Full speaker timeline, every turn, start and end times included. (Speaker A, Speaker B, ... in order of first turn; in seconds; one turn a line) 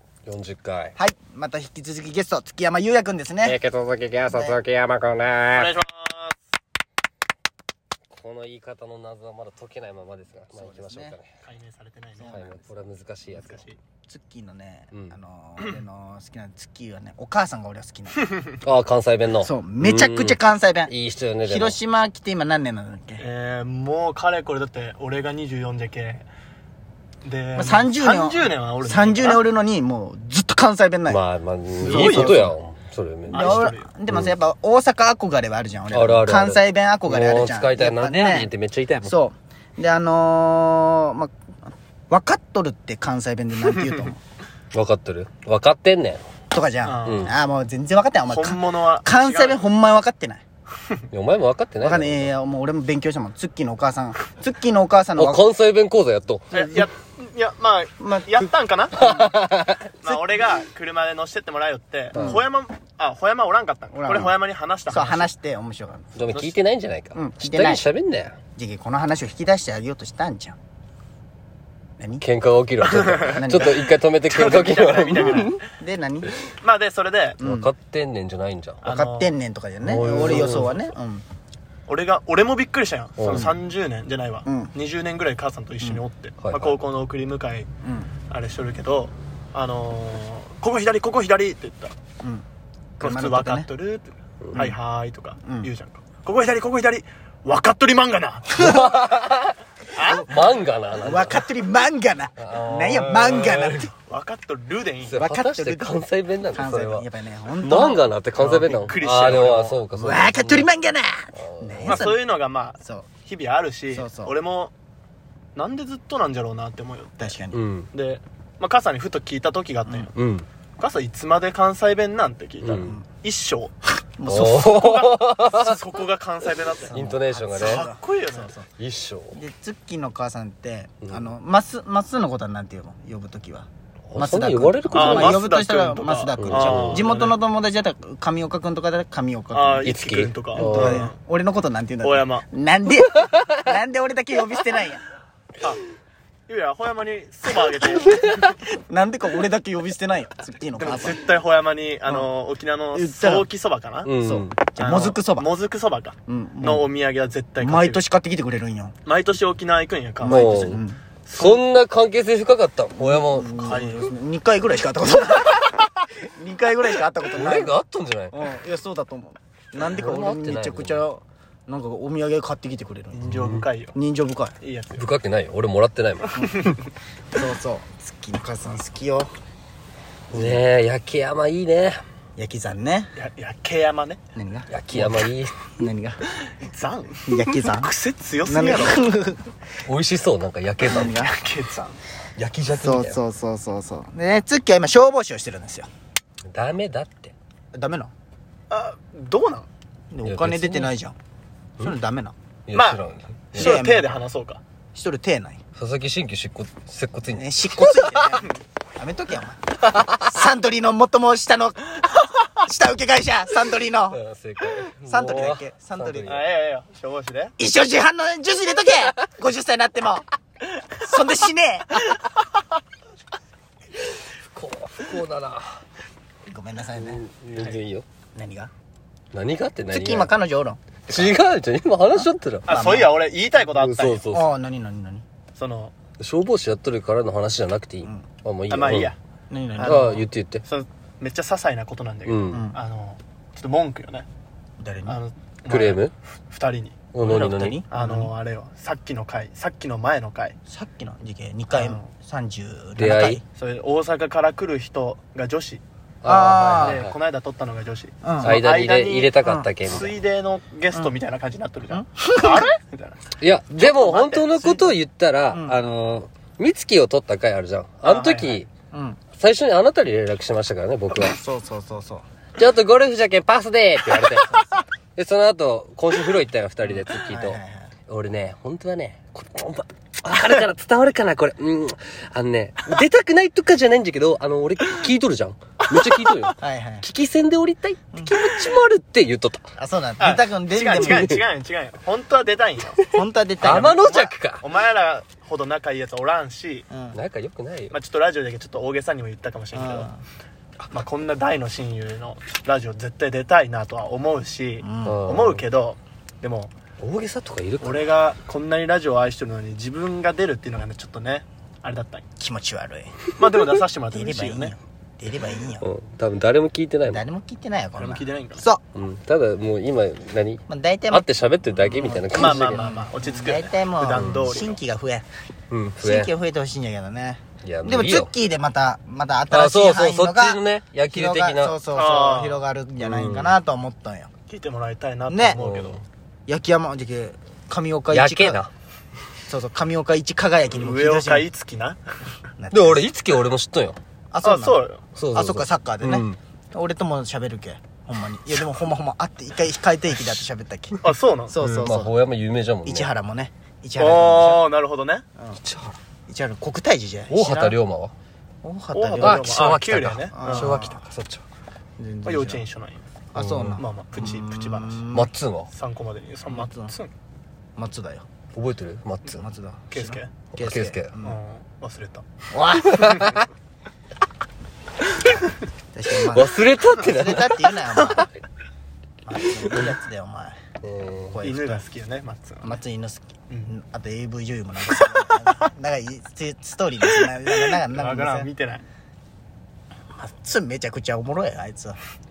Speaker A: 0.3-1.0
Speaker B: 1.0-3.6
Speaker A: 3.5-5.7
Speaker B: 4.3-4.6
Speaker C: 5.5-6.4
Speaker A: 8.1-11.3
Speaker B: 10.5-11.2
Speaker C: 11.4-12.4
Speaker B: 12.2-12.7
Speaker A: 12.2-13.6
Speaker C: 13.3-13.8
Speaker B: 14.1-18.3
Speaker A: 18.6-21.8
Speaker B: 19.4-20.9
Speaker B: 21.4-23.2
Speaker C: 23.2-26.2
Speaker C: 27.2-29.4
Speaker B: 27.6-31.2
Speaker A: 31.1-34.3
Speaker C: 31.8-32.5
Speaker B: 31.8-32.5
Speaker C: 33.3-33.9
Speaker B: 33.3-38.5
Speaker A: 35.9-39.1
Speaker B: 39.0-41.3
Speaker B: 42.1-44.2
Speaker A: 44.7-46.2
Speaker B: 46.5-50.4
Speaker C: 46.8-47.3
Speaker A: 47.0-47.3
Speaker C: 48.3-49.6
Speaker A: 51.1-52.3
Speaker B: 51.8-55.5
Speaker A: 55.2-56.5
Speaker B: 56.5-56.9
Speaker C: 56.5-59.0
Speaker B: 58.0-59.4
Speaker A: 58.9-59.9
Speaker C: 60.0-65.3
Speaker B: 62.1-62.4
Speaker A: 62.1-62.4
Speaker B: 63.9-64.3
Speaker B: 64.9-66.2
Speaker A: 66.2-68.3
Speaker C: 66.3-66.5
Speaker B: 67.1-67.9
Speaker B: 68.6-70.6
Speaker B: 72.0-72.3
Speaker A: 72.2-75.6
Speaker B: 72.8-73.9
Speaker C: 72.9-75.6
Speaker B: 75.6-76.3
Speaker C: 76.6-77.4
Speaker B: 77.4-77.7
Speaker A: 77.4-78.8
Speaker C: 78.8-79.3
Speaker B: 78.9-81.2
Speaker A: 79.8-80.7
Speaker C: 80.0-80.9
Speaker C: 81.9-87.7
Speaker A: 83.2-83.5
Speaker B: 84.5-84.7
Speaker A: 86.4-86.8
Speaker B: 87.8-88.1
Speaker C: 88.3-91.9
Speaker B: 93.0-93.7
Speaker C: 93.0-99.0
Speaker B: 95.4-95.7
Speaker A: 98.6-99.5
Speaker C: 99.9-100.3
Speaker B: 100.0-103.9
Speaker A: 100.2-101.4
Speaker A: 102.4-103.9
Speaker C: 104.0-105.2
Speaker A: 105.0-107.1
Speaker B: 105.2-108.2
Speaker A: 107.6-110.7
Speaker C: 108.4-109.8
Speaker B: 109.9-112.3
Speaker A: 111.4-112.0
Speaker C: 111.8-114.7
Speaker B: 112.8-113.1
Speaker B: 113.9-114.3
Speaker C: 115.6-117.4
Speaker B: 117.2-117.6
Speaker A: 117.5-117.9
Speaker C: 117.9-120.2
Speaker A: 120.2-120.5
Speaker C: 120.8-123.8
Speaker A: 122.6-122.9
Speaker B: 122.8-123.1
Speaker B: 124.2-124.7
Speaker A: 124.3-125.7
Speaker C: 124.5-127.0
Speaker B: 126.8-128.7
Speaker A: 126.9-127.9
Speaker C: 127.6-128.5
Speaker A: 128.8-129.4
Speaker B: 129.3-139.9
Speaker A: 134.1-135.4
Speaker C: 134.9-137.4
Speaker A: 136.4-137.1
Speaker C: 139.5-141.2
Speaker A: 139.8-141.1
Speaker B: 140.5-145.0
Speaker C: 142.0-142.5
Speaker C: 146.5-148.4
Speaker B: 148.4-151.2
Speaker C: 150.8-154.1
Speaker B: 152.9-153.5
Speaker A: 154.0-154.6
Speaker B: 154.2-155.5
Speaker C: 154.8-158.1
Speaker B: 156.3-156.9
Speaker B: 157.6-158.9
Speaker C: 159.1-160.8
Speaker B: 160.2-161.0
Speaker A: 160.2-163.8
Speaker C: 161.3-161.6
Speaker B: 163.0-167.8
Speaker C: 163.6-164.1
Speaker A: 167.3-168.4
Speaker B: 168.3-173.3
Speaker A: 169.8-171.1
Speaker C: 173.1-174.0
Speaker A: 173.3-173.7
Speaker B: 173.9-174.5
Speaker C: 174.6-175.1
Speaker A: 175.0-176.4
Speaker B: 176.3-176.7
Speaker C: 176.4-176.8
Speaker B: 177.3-179.3
Speaker A: 180.3-182.0
Speaker B: 180.3-180.6
Speaker B: 182.4-183.1
Speaker C: 183.2-184.2
Speaker B: 184.3-186.2
Speaker A: 184.7-185.6
Speaker C: 186.6-189.0
Speaker B: 187.3-189.4
Speaker A: 189.9-191.2
Speaker B: 190.9-191.4
Speaker C: 190.9-192.0
Speaker A: 192.4-193.2
Speaker B: 192.8-195.9
Speaker A: 196.5-197.3
Speaker B: 197.7-198.1
Speaker C: 198.7-199.7
Speaker B: 200.1-201.2
Speaker A: 200.2-200.9
Speaker B: 201.8-202.3
Speaker A: 202.7-203.8
Speaker C: 202.7-203.0
Speaker C: 203.5-204.6
Speaker B: 203.5-204.2
Speaker B: 204.9-205.6
Speaker A: 205.8-207.8
Speaker B: 207.3-214.2
Speaker C: 208.2-208.6
Speaker A: 214.1-216.5
Speaker B: 214.9-216.4
Speaker C: 216.2-217.6
Speaker B: 217.6-220.3
Speaker B: 221.0-222.2
Speaker A: 224.4-225.8
Speaker B: 226.5-227.2
Speaker A: 227.0-228.1
Speaker B: 228.3-228.7
Speaker A: 229.3-230.3
Speaker B: 229.9-231.3
Speaker A: 231.1-232.7
Speaker B: 232.2-233.2
Speaker C: 232.7-234.2
Speaker A: 233.8-234.5
Speaker B: 234.3-235.2
Speaker C: 235.6-235.9
Speaker A: 236.2-239.1
Speaker C: 238.7-239.2
Speaker B: 239.5-240.3
Speaker C: 239.8-240.1
Speaker A: 239.8-240.6
Speaker C: 240.6-244.3
Speaker A: 242.2-242.7
Speaker B: 242.5-242.8
Speaker B: 244.8-245.2
Speaker C: 245.1-247.1
Speaker A: 245.7-246.1
Speaker A: 247.1-247.8
Speaker B: 247.2-248.3
Speaker C: 247.9-250.6
Speaker B: 250.7-253.4
Speaker C: 251.7-252.1
Speaker A: 253.0-253.4
Speaker C: 253.6-255.8
Speaker A: 256.2-257.1
Speaker B: 256.2-257.0
Speaker C: 256.4-263.2
Speaker B: 258.2-258.6
Speaker A: 258.4-260.1
Speaker B: 259.4-259.7
Speaker B: 261.9-262.7
Speaker A: 263.4-268.7
Speaker C: 263.8-264.7
Speaker B: 264.4-264.9
Speaker B: 265.5-265.8
Speaker C: 268.0-268.6
Speaker B: 268.9-269.2
Speaker A: 269.4-271.4
Speaker B: 271.2-272.2
Speaker A: 272.6-289.6
Speaker B: 274.4-274.8
Speaker B: 277.1-277.9
Speaker B: 286.6-287.1
Speaker B: 289.8-291.4
Speaker C: 290.2-293.1
Speaker A: 291.0-291.4
Speaker B: 293.1-294.2
Speaker C: 293.6-296.9
Speaker A: 293.6-294.6
Speaker B: 296.9-297.2
Speaker A: 297.1-298.0
Speaker C: 297.9-300.1
Speaker B: 299.7-300.2
Speaker C: 300.9-306.7
Speaker B: 304.8-305.3
Speaker A: 305.1-305.6
Speaker A: 307.0-308.1
Speaker C: 307.8-312.2
Speaker B: 312.4-313.2
Speaker C: 313.3-314.7
Speaker B: 314.1-315.9
Speaker A: 315.8-317.2
Speaker B: 317.1-318.8
Speaker C: 318.0-318.6
Speaker A: 318.9-322.8
Speaker B: 320.7-321.3
Speaker B: 321.8-325.3
Speaker C: 322.3-324.8
Speaker A: 324.1-324.5
Speaker A: 325.7-326.3
Speaker B: 326.0-334.3
Speaker A: 327.6-328.3
Speaker A: 329.5-331.8
Speaker C: 331.9-332.6
Speaker A: 333.0-333.6
Speaker C: 334.5-336.0
Speaker B: 335.3-335.6
Speaker A: 335.6-336.0
Speaker B: 336.5-338.6
Speaker A: 338.1-338.7
Speaker B: 339.5-341.5
Speaker C: 340.7-342.0
Speaker B: 342.6-343.1
Speaker A: 342.7-344.0
Speaker B: 344.3-352.1
Speaker C: 344.4-345.0
Speaker A: 345.1-346.4
Speaker C: 351.0-351.6
Speaker A: 351.6-353.1
Speaker B: 352.9-354.7
Speaker C: 354.0-355.2
Speaker A: 355.6-356.0
Speaker B: 356.3-357.8
Speaker A: 357.3-358.1
Speaker B: 358.6-359.5
Speaker C: 358.9-360.8
Speaker A: 359.2-361.4
Speaker B: 360.2-361.1
Speaker B: 362.0-362.6
Speaker C: 362.2-363.1
Speaker B: 363.3-365.3
Speaker A: 363.4-363.8
Speaker C: 363.8-365.0
Speaker A: 365.1-365.7
Speaker C: 365.7-367.1
Speaker B: 366.5-366.9
Speaker B: 367.8-368.2
Speaker A: 368.5-369.4
Speaker B: 369.3-371.4
Speaker C: 369.9-370.3
Speaker A: 370.5-371.1
Speaker C: 371.2-372.2
Speaker B: 372.5-373.4
Speaker A: 372.9-373.4
Speaker B: 375.9-378.3
Speaker A: 376.3-378.2
Speaker C: 378.0-378.2
Speaker B: 379.2-380.6
Speaker A: 380.8-381.4
Speaker B: 381.3-381.8
Speaker C: 381.4-382.8
Speaker B: 382.6-388.5
Speaker C: 387.2-388.8
Speaker B: 390.2-392.0